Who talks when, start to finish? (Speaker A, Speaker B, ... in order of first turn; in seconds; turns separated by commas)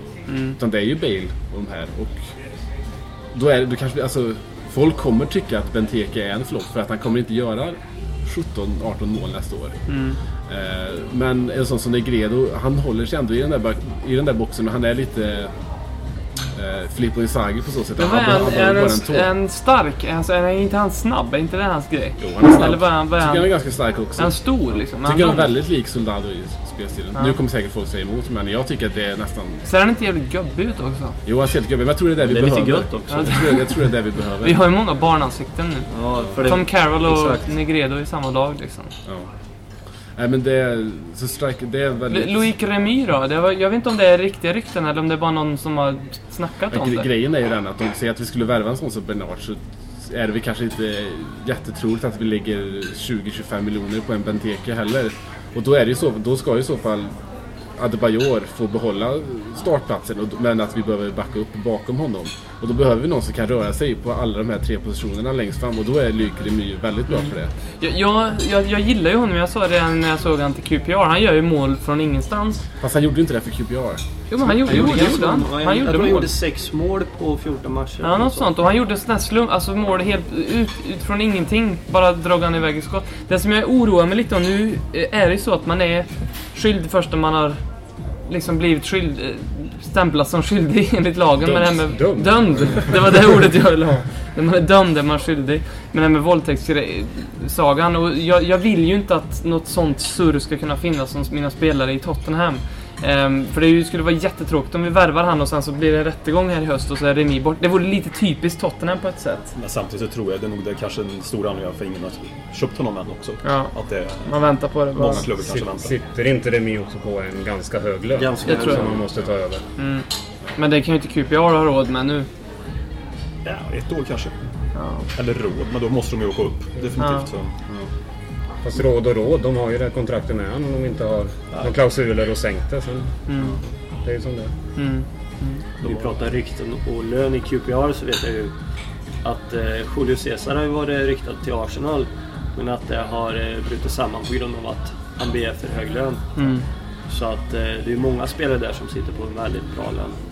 Speaker A: 0.3-0.6, Speaker B: 0.6-2.2, Speaker B: 3.3-9.8, Speaker A: 9.9-10.2, Speaker B: 10.5-15.5, Speaker B: 16.5-19.3, Speaker A: 18.0-23.5, Speaker B: 22.2-24.4, Speaker A: 24.2-25.5, Speaker B: 25.0-29.6, Speaker A: 29.7-31.2, Speaker B: 31.2-34.6, Speaker C: 32.2-33.4, Speaker A: 33.1-33.7, Speaker A: 34.4-35.9, Speaker C: 35.9-37.4, Speaker A: 36.5-38.9, Speaker B: 40.2-42.5, Speaker A: 42.1-47.1, Speaker B: 46.7-57.1, Speaker B: 57.8-67.5, Speaker A: 67.1-72.6, Speaker B: 72.8-75.1, Speaker A: 74.3-76.3, Speaker C: 74.6-78.5, Speaker A: 78.0-87.6, Speaker A: 88.2-109.5, Speaker B: 91.4-93.0, Speaker D: 109.5-115.9, Speaker A: 113.4-115.3, Speaker E: 115.2-119.6, Speaker C: 118.2-119.0, Speaker A: 118.5-118.8, Speaker A: 119.8-120.0, Speaker A: 120.5-122.3, Speaker D: 123.4-124.4, Speaker A: 124.8-125.0, Speaker D: 125.1-127.5, Speaker A: 127.0-127.3, Speaker E: 128.6-133.4, Speaker A: 133.3-133.6, Speaker E: 134.0-134.5, Speaker A: 134.8-135.6, Speaker C: 135.8-138.5, Speaker C: 139.2-146.2, Speaker A: 146.4-146.6, Speaker C: 147.1-150.2